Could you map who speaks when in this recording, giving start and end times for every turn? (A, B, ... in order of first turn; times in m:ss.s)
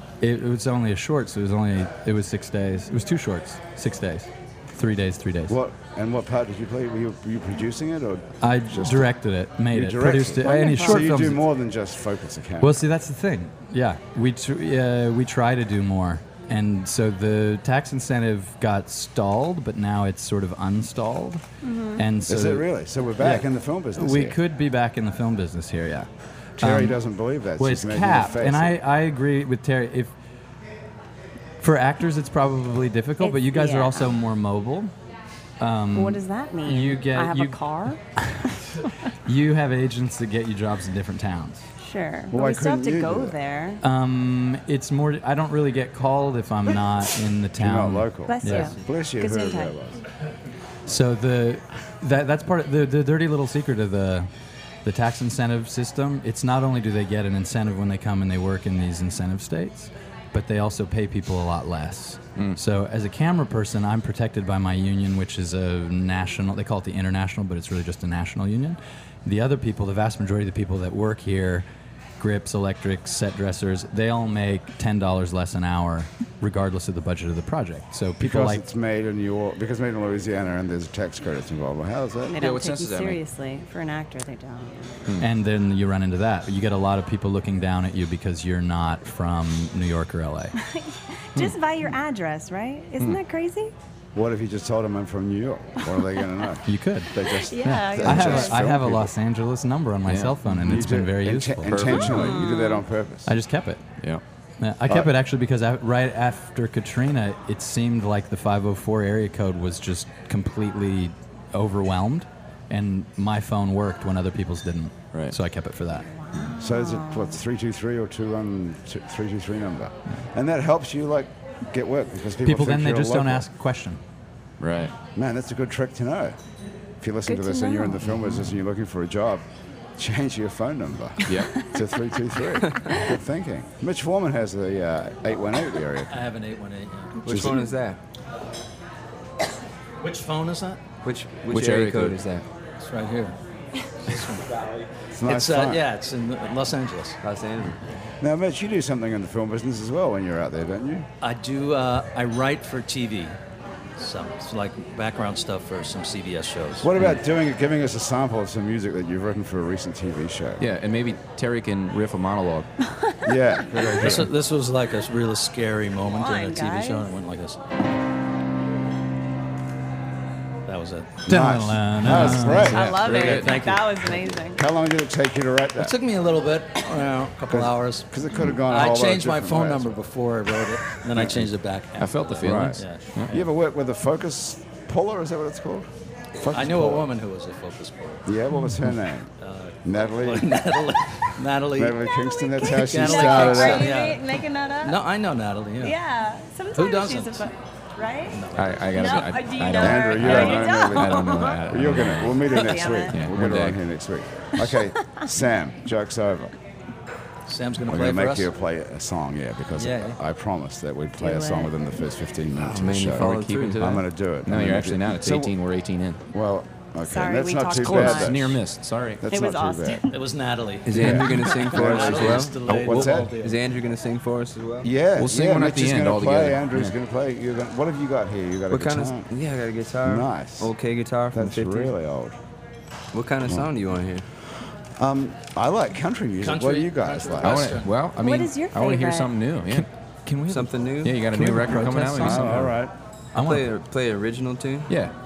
0:00.2-0:05.6 A
0:05.5-0:09.1 B
0:08.4-0:11.4 A
0:09.7-0:12.8 B
0:10.4-0:11.1 C
0:12.6-0:21.4 A
0:21.6-0:22.0 C
0:22.0-0:22.7 A
0:22.3-0:24.4 B
0:23.2-0:26.1 A
0:26.6-0:28.8 B
0:26.6-0:27.0 A
0:27.6-0:30.1 A
0:31.6-0:34.9 A
0:33.2-0:34.1 C
0:35.6-0:37.6 A
0:36.0-0:38.0 C
0:38.2-0:38.4 A
0:39.2-0:41.7 A
0:41.8-0:43.8 C
0:42.3-0:43.4 B
0:43.8-0:48.7 A
0:47.6-0:50.0 B
0:48.3-0:49.7 C
0:50.9-0:54.3 A
0:54.8-1:11.7 A
1:12.2-1:18.6 A
1:18.2-1:22.4 B
1:22.3-1:25.0 C
1:22.4-1:23.2 D
1:25.2-1:30.6 A
1:30.6-1:33.7 C
1:34.2-1:39.1 B
1:36.7-1:42.0 A
1:37.2-1:38.6 C
1:40.1-1:40.9 D
1:40.6-1:43.3 B
1:41.7-1:42.4 D
1:42.1-1:42.8 C
1:43.3-1:43.8 A
1:44.6-1:56.1 A
1:55.9-1:57.4 C
1:56.6-2:03.5 B
2:02.4-2:04.0 A
2:04.6-2:04.9 D
2:05.2-2:06.4 B
2:07.0-2:09.4 B
2:07.3-2:08.0 C
2:10.0-2:16.2 B
2:11.3-2:11.5 D
2:16.1-2:17.3 E
2:17.2-2:18.0 F
2:17.3-2:17.7 B
2:20.0-2:20.8 E
2:21.0-2:22.4 F
2:21.5-2:22.2 D
2:22.8-2:23.4 E
2:24.0-2:27.2 E
2:25.1-2:25.8 B
2:27.2-2:27.8 F
2:28.2-2:31.1 B
2:31.2-2:33.4 E
2:34.0-2:36.9 E
2:36.8-2:40.6 B
2:40.6-2:42.7 D
2:43.2-2:44.3 B
2:43.9-2:47.6 E
2:46.0-2:47.1 C
2:50.7-2:51.2 E
2:51.3-2:53.0 B
2:51.3-2:52.8 A
2:52.1-2:53.6 D
2:52.6-2:54.6 C
2:53.0-2:54.4 E
2:54.6-2:56.0 B
2:55.8-3:03.4 E
2:57.5-2:59.9 B
3:01.2-3:01.5 B
3:02.0-3:03.4 D
3:02.4-3:07.1 B
3:06.4-3:08.3 E
3:08.3-3:09.3 B
3:09.4-3:12.0 E
3:09.8-3:11.0 B
3:11.8-3:13.9 B
3:12.3-3:15.0 C
3:12.8-3:14.3 E
3:14.8-3:16.0 E
3:15.8-3:21.6 C
3:16.7-3:17.5 E
3:18.3-3:19.4 E
3:18.6-3:22.5 D
3:19.8-3:26.6 B
3:20.2-3:20.5 E
3:22.4-3:23.2 C
3:23.1-3:23.8 D
3:24.6-3:25.2 C
3:27.5-3:28.5 E
3:27.9-3:35.6 B
3:29.8-3:30.2 E
3:31.2-3:31.7 C
3:32.6-3:34.0 F
3:33.1-3:36.2 D
3:36.3-3:38.6 B
3:37.0-3:38.6 C
3:37.8-3:39.2 D
3:39.2-3:40.0 B
3:39.3-3:40.2 C
3:40.1-3:43.6 E
3:40.8-3:44.9 F
3:41.0-3:41.3 D
3:41.0-3:43.3 B
3:44.8-3:49.3 B
3:45.2-3:46.9 D
3:48.7-3:51.9 F
3:50.0-3:50.7 B
3:51.3-3:52.4 B
3:53.1-3:54.3 F
3:55.0-3:57.7 B
3:56.4-3:58.1 E
3:57.4-3:59.9 D
3:58.2-3:59.4 C
3:59.7-4:02.7 A
4:00.5-4:01.2 F
4:01.0-4:02.7 D
4:02.2-4:02.9 B
4:03.4-4:03.7 A
4:03.4-4:04.9 F